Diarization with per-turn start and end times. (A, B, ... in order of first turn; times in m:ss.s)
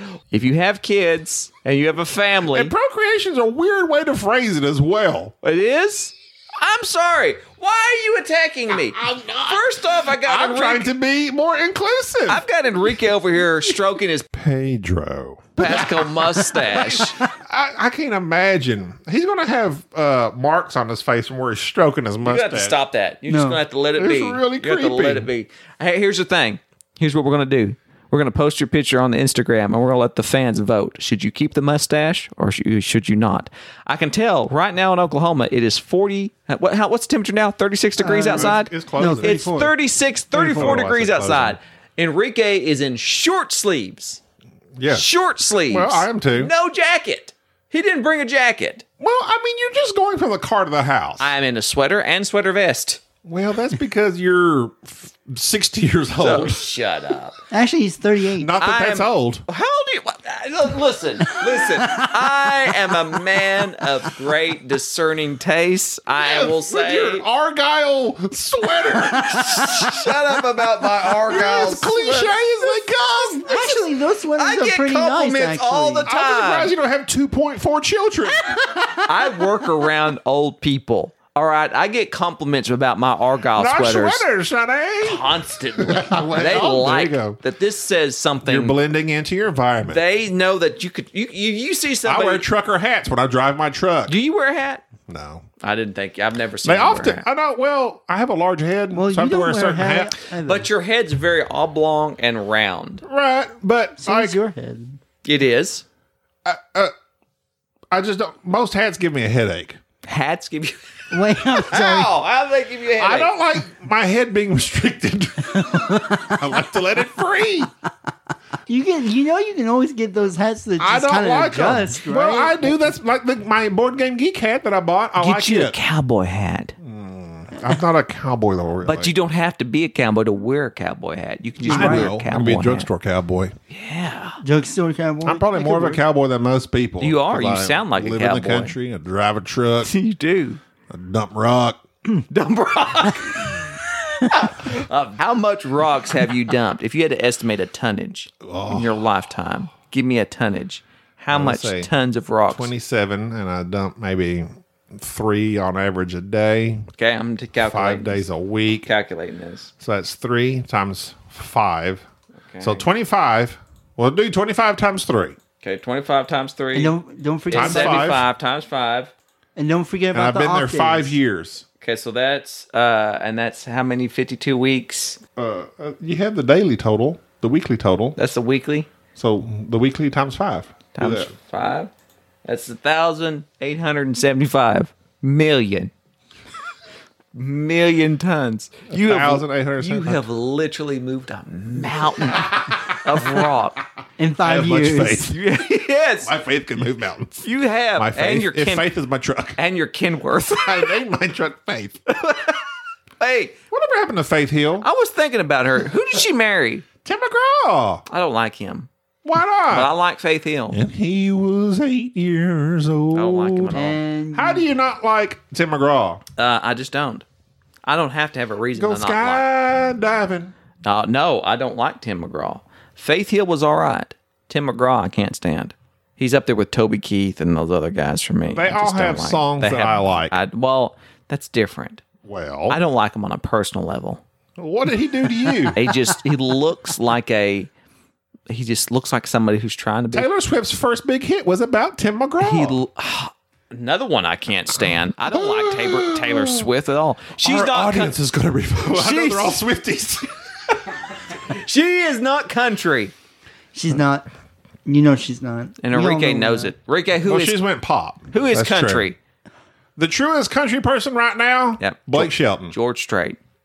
0:00.3-0:02.7 A
0:02.5-0:05.3 B
0:05.4-0:10.9 A
0:09.1-0:09.5 B
0:10.2-0:12.4 B
0:12.3-0:14.3 A
0:14.3-0:22.8 B
0:15.6-0:17.2 A
0:22.2-0:44.2 A
0:23.3-0:23.6 C
0:24.0-0:25.3 B
0:38.0-0:39.5 C
0:38.3-0:39.7 B
0:40.3-0:41.6 B
0:40.5-0:40.8 C
0:44.8-0:45.1 B
0:44.9-0:48.8 A
0:45.7-0:46.5 B
0:49.0-0:51.3 B
0:51.2-0:53.0 A
0:53.2-0:56.6 B
0:56.2-0:57.4 A
0:57.5-0:58.5 C
0:58.4-0:59.4 B
0:58.6-1:07.2 A
1:01.4-1:03.0 C
1:06.2-1:10.1 B
1:09.4-1:12.3 A
1:11.1-1:13.8 B
1:12.9-1:16.1 C
1:14.4-1:16.7 A
1:16.1-1:18.6 B
1:18.5-1:19.6 C
1:19.0-1:24.2 A
1:23.6-1:27.4 B
1:25.0-1:28.8 A
1:28.4-1:30.0 B
1:29.9-1:32.5 A
1:32.1-1:34.1 B
1:34.1-1:34.8 A
1:35.0-1:35.4 B
1:35.6-1:37.3 A
1:36.6-1:40.1 B
1:38.9-1:40.7 C
1:40.5-1:43.0 A
1:43.0-1:44.4 B
1:44.0-1:45.0 C
1:45.2-1:45.8 A
1:46.4-1:46.9 B
1:47.9-1:49.8 B
1:50.0-1:53.3 A
1:51.1-1:52.2 C
1:53.0-1:57.7 B
1:55.6-1:56.4 C
1:58.7-2:03.0 C
2:00.8-2:05.8 B
2:05.2-2:06.8 A
2:06.8-2:09.1 B
2:08.8-2:12.9 A
2:11.6-2:12.2 C
2:11.7-2:13.6 B
2:13.7-2:14.4 A
2:14.4-2:16.0 C
2:15.2-2:19.9 B
2:17.0-2:18.8 A
2:19.8-2:20.6 A
2:20.9-2:21.8 B
2:22.3-2:32.7 A
2:28.4-2:28.9 B
2:31.3-2:31.9 B
2:32.5-2:36.9 B
2:37.0-2:38.2 A
2:37.6-2:38.9 B
2:38.8-2:39.7 A
2:39.8-2:42.0 B
2:42.5-2:42.8 A
2:42.6-2:45.4 B
2:45.6-2:47.0 A
2:46.7-2:48.1 C
2:47.5-2:49.1 A
2:47.5-2:48.3 B
2:49.6-2:51.2 C
2:50.1-2:51.6 B
2:51.8-2:55.2 A
2:55.4-2:58.2 B
2:58.2-2:58.9 A
2:59.2-3:01.3 B
3:01.0-3:01.9 A
3:02.4-3:05.9 A
3:07.4-3:13.8 A
3:08.9-3:10.2 B
3:14.2-3:15.4 C
3:14.4-3:15.4 B
3:15.3-3:16.3 A
3:16.2-3:17.5 B
3:17.4-3:18.9 A
3:18.0-3:19.6 B
3:19.6-3:21.0 A
3:20.6-3:22.0 B
3:22.1-3:22.6 A
3:23.2-3:23.6 A
3:23.7-3:24.9 B
3:24.8-3:26.9 A
3:27.0-3:28.0 B
3:28.1-3:28.9 A
3:29.2-3:29.9 B
3:29.7-3:30.8 A
3:30.7-3:33.8 B
3:33.1-3:34.0 A
3:33.7-3:34.7 C
3:34.3-3:36.2 B
3:36.4-3:37.2 A
3:37.9-3:39.5 A
3:38.7-3:40.5 B
3:40.8-3:52.0 A
3:48.5-3:50.4 B
3:52.2-3:52.8 B
3:52.7-3:54.2 A
3:54.6-3:55.8 B
3:55.4-3:55.9 C
3:55.7-3:57.7 A
3:58.5-4:00.3 A
4:00.1-4:02.8 B
4:02.4-4:08.1 A
4:05.3-4:06.7 B
4:07.4-4:10.3 B
4:08.8-4:09.6 A
4:11.5-4:13.1 A
4:13.7-4:14.3 C
4:14.8-4:16.7 C
4:15.8-4:17.6 A
4:17.3-4:19.1 B
4:18.3-4:19.2 A
4:20.0-4:22.7 B
4:21.8-4:23.4 A